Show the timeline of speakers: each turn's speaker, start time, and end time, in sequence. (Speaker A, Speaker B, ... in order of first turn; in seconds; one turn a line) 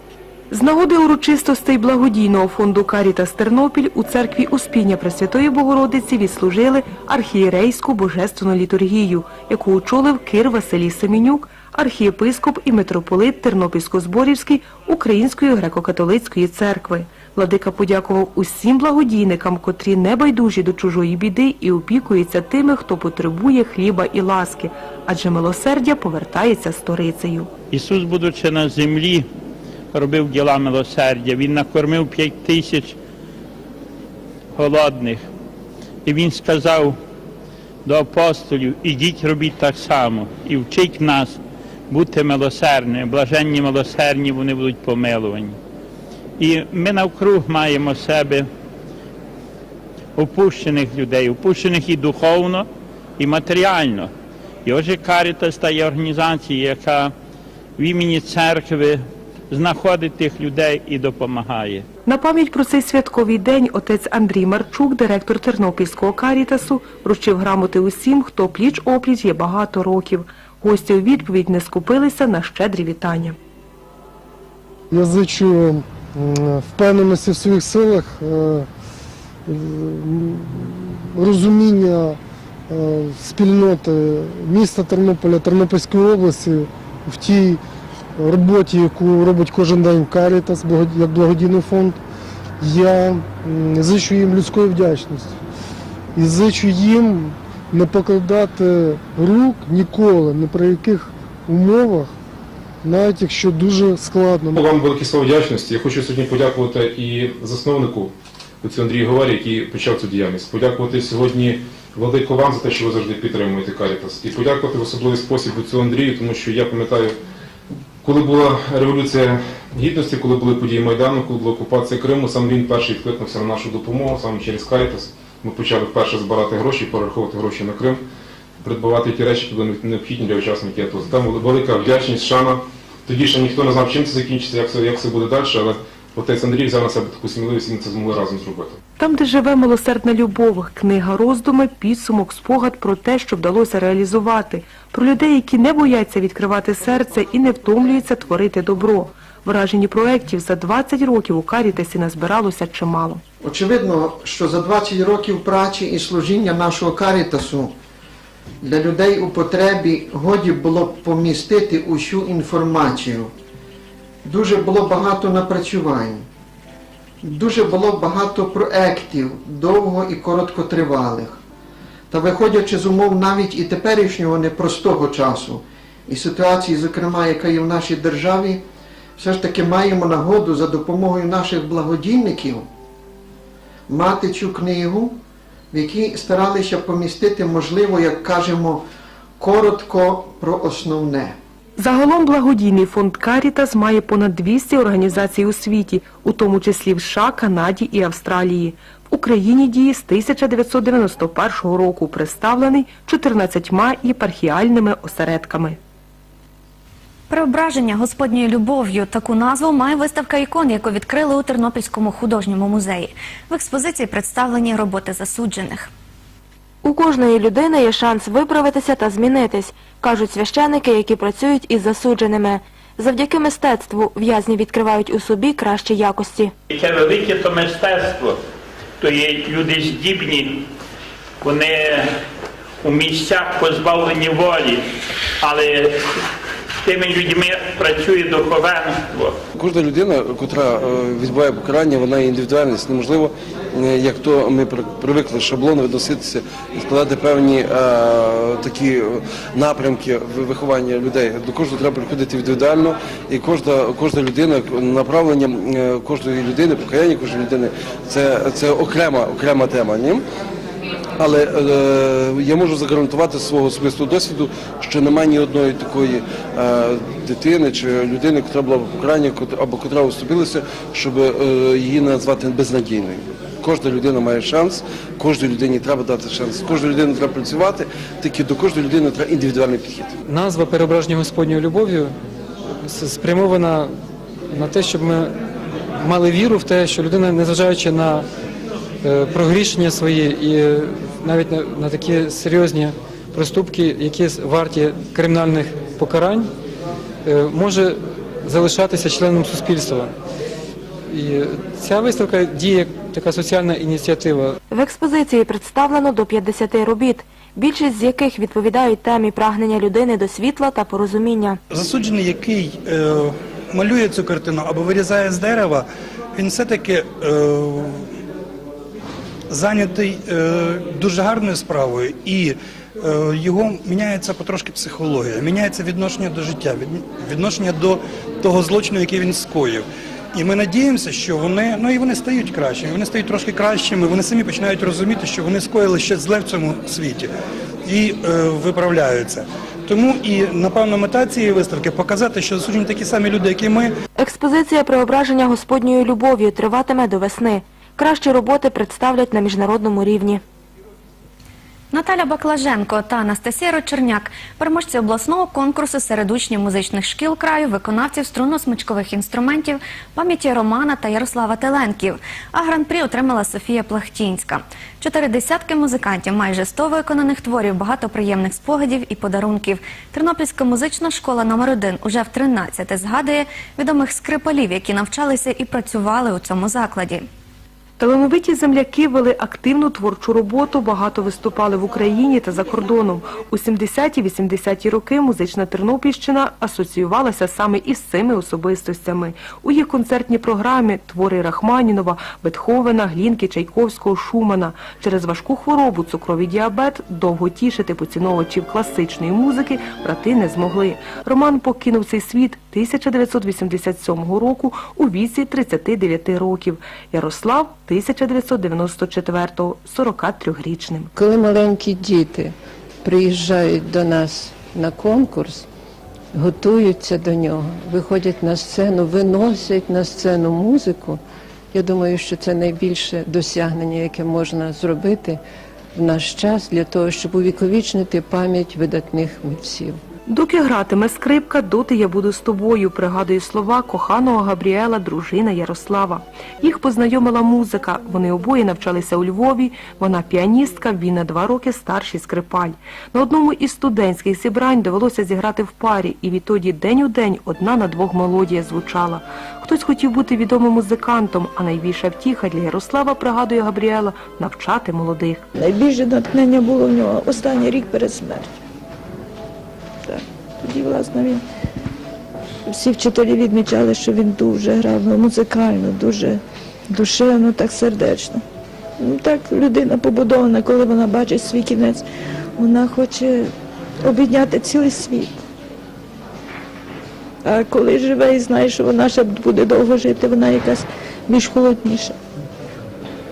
Speaker A: 0.5-27.5
Speaker B: 27.7-29.3
Speaker B: 29.9-33.0
Speaker B: 34.5-35.3
Speaker B: 36.0-37.0
Speaker B: 37.8-41.4
Speaker B: 41.9-45.6
Speaker B: 46.4-48.5
Speaker B: 50.2-52.7
Speaker B: 53.2-54.1
Speaker B: 54.6-57.1
Speaker B: 57.8-61.8
Speaker A: 62.0-73.3
Speaker C: 74.9-78.7
Speaker C: 79.5-87.6
Speaker C: 88.2-92.0
Speaker C: 92.6-95.4
Speaker C: 96.1-102.1
Speaker C: 102.8-104.6
Speaker D: 104.6-117.2
Speaker D: 118.0-128.0
Speaker D: 128.6-138.8
Speaker A: 139.0-153.2
Speaker E: 153.4-157.7
Speaker E: 158.6-163.3
Speaker E: 164.2-166.2
Speaker E: 167.2-171.4
Speaker E: 172.1-178.6
Speaker E: 179.2-182.7
Speaker E: 183.9-185.2
Speaker E: 185.7-188.8
Speaker E: 189.4-191.3
Speaker A: 191.8-205.8
Speaker F: 207.3-215.9
Speaker G: 216.8-226.5
Speaker B: 226.7-228.4
Speaker B: 229.0-230.7
Speaker B: 231.4-232.1
Speaker B: 232.8-234.8
Speaker B: 235.4-236.1
Speaker B: 236.8-239.4
Speaker H: 239.5-260.2
Speaker H: 261.2-280.1
Speaker I: 280.3-282.1
Speaker I: 282.8-283.9
Speaker I: 284.5-285.3
Speaker I: 286.0-288.3
Speaker I: 289.0-296.5
Speaker I: 297.2-300.1
Speaker I: 301.1-304.6
Speaker G: 304.7-311.6
Speaker J: 311.7-318.0
Speaker J: 319.5-337.3
Speaker J: 337.8-343.9
Speaker G: 344.2-350.4
Speaker F: 351.9-377.3
Speaker A: 378.0-411.1
Speaker K: 411.1-415.6
Speaker K: 416.3-421.2
Speaker K: 421.7-425.4
Speaker K: 425.9-430.0
Speaker A: 430.3-455.4
Speaker L: 455.6-458.5
Speaker L: 460.1-461.4
Speaker L: 462.7-468.4
Speaker L: 469.0-472.0
Speaker L: 472.6-475.4
Speaker L: 477.4-482.1